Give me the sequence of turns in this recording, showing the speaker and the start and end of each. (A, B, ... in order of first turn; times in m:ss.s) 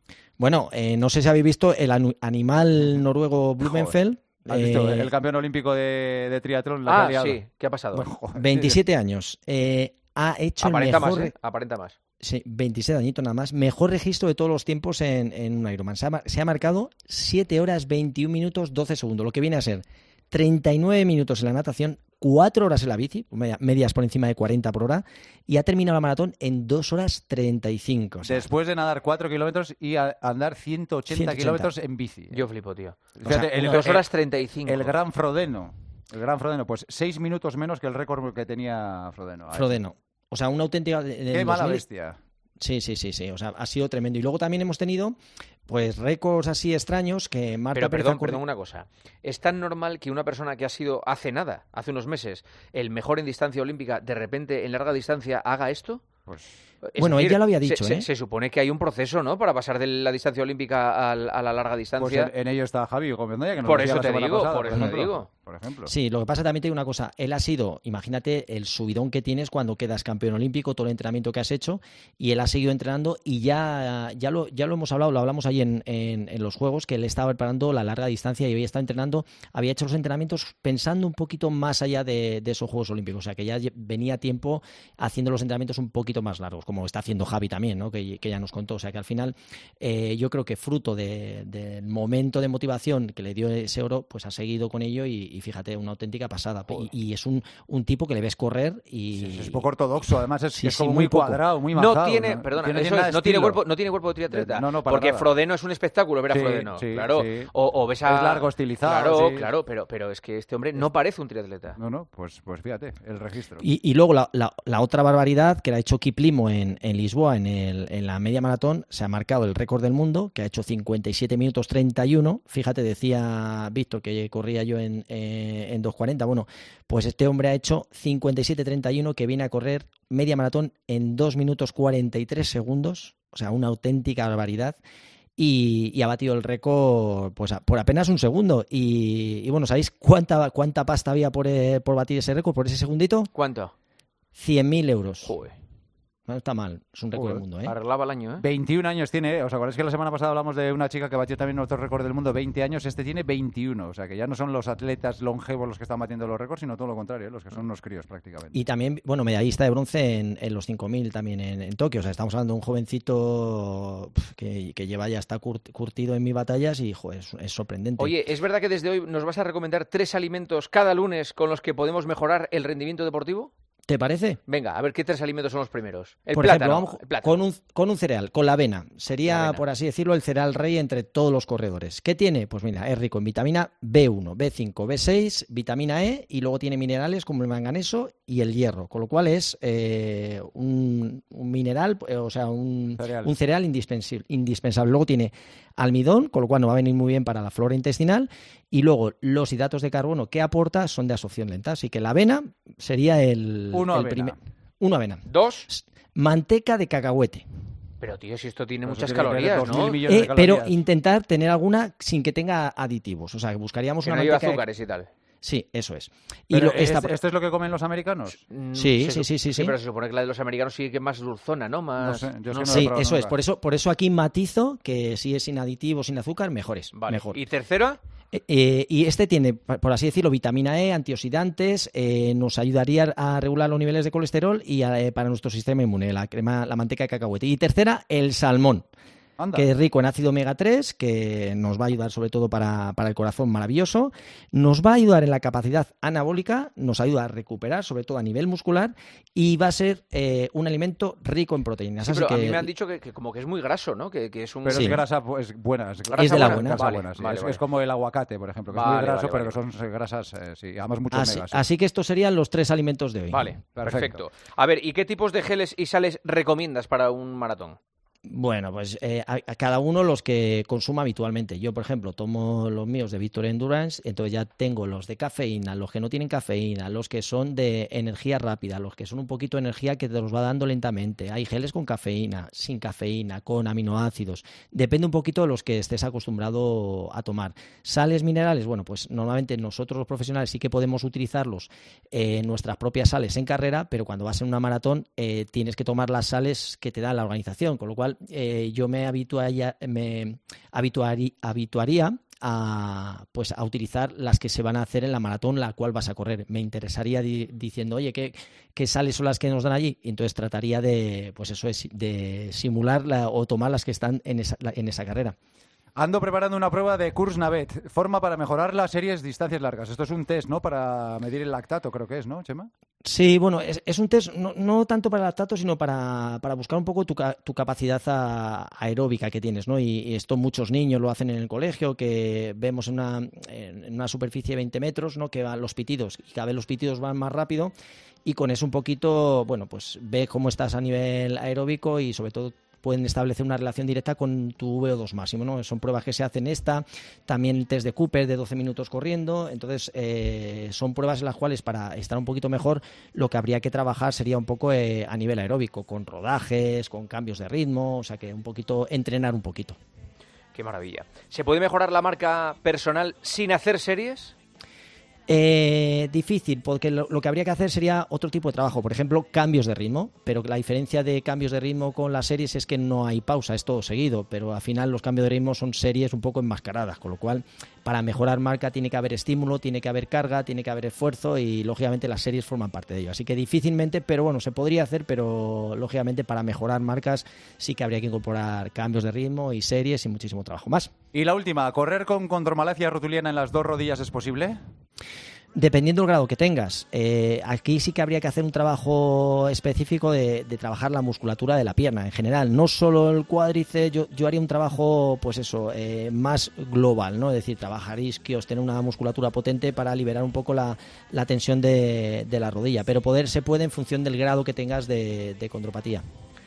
0:00.4-0:05.1 A
0:03.6-0:03.9 B
0:04.4-0:07.4 B
0:06.8-0:08.1 C
0:07.9-0:08.8 B
0:08.3-0:11.3 A
0:10.6-0:11.9 C
0:12.2-0:28.5 A
0:28.2-0:32.4 B
0:31.1-0:31.7 A
0:32.3-0:33.0 C
0:33.2-0:34.1 B
0:33.2-0:33.7 A
0:33.6-0:34.9 C
0:34.6-0:39.8 B
0:39.5-0:41.8 A
0:41.3-0:42.2 B
0:42.6-0:45.2 A
0:45.7-0:48.4 A
0:47.7-0:56.0 C
0:56.8-1:02.3 C
0:57.0-0:58.1 A
1:02.0-1:05.9 B
1:03.6-1:05.3 C
1:05.8-1:39.7 A
1:39.2-1:43.6 B
1:40.6-1:41.4 A
1:41.7-1:51.8 C
1:44.3-1:45.3 B
1:46.3-1:47.5 B
1:48.0-1:49.5 B
1:51.8-1:53.6 B
1:53.6-2:14.8 A
2:15.4-2:23.3 A
2:23.3-2:23.7 C
2:24.3-2:25.3 A
2:25.2-2:25.5 C
2:26.3-2:27.7 A
2:27.1-2:27.4 B
2:27.6-2:28.4 C
2:28.4-2:38.6 B
2:38.5-2:48.1 A
2:48.0-2:53.5 C
2:53.9-2:54.4 A
2:54.4-2:57.4 C
2:56.3-3:27.4 A
2:59.3-2:59.6 C
3:13.0-3:13.3 B
3:23.7-3:24.4 B
3:25.2-3:25.7 C
3:28.0-3:30.0 C
3:28.8-3:30.8 B
3:30.0-3:34.6 A
3:34.0-3:35.1 C
3:35.4-3:37.1 A
3:36.5-3:38.4 B
3:38.5-3:42.9 C
3:38.7-3:39.7 A
3:42.0-3:43.3 B
3:42.7-3:47.4 A
3:46.9-3:48.0 C
3:48.3-3:58.8 A
3:59.4-3:59.6 B
3:59.5-4:12.7 A
4:12.0-4:15.0 C
4:14.6-4:21.6 B
4:14.7-4:15.0 A
4:16.1-4:17.6 C
4:16.2-4:16.8 A
4:18.7-4:19.6 C
4:21.1-4:23.5 A
4:23.3-4:27.8 C
4:23.8-4:24.2 B
4:28.2-5:15.3 A
5:16.0-5:22.7 B
5:23.0-5:37.7 A
5:38.2-5:59.8 A
6:00.5-6:04.3 C
6:05.3-6:30.9 A
6:31.1-6:34.6 B
6:35.5-6:56.0 A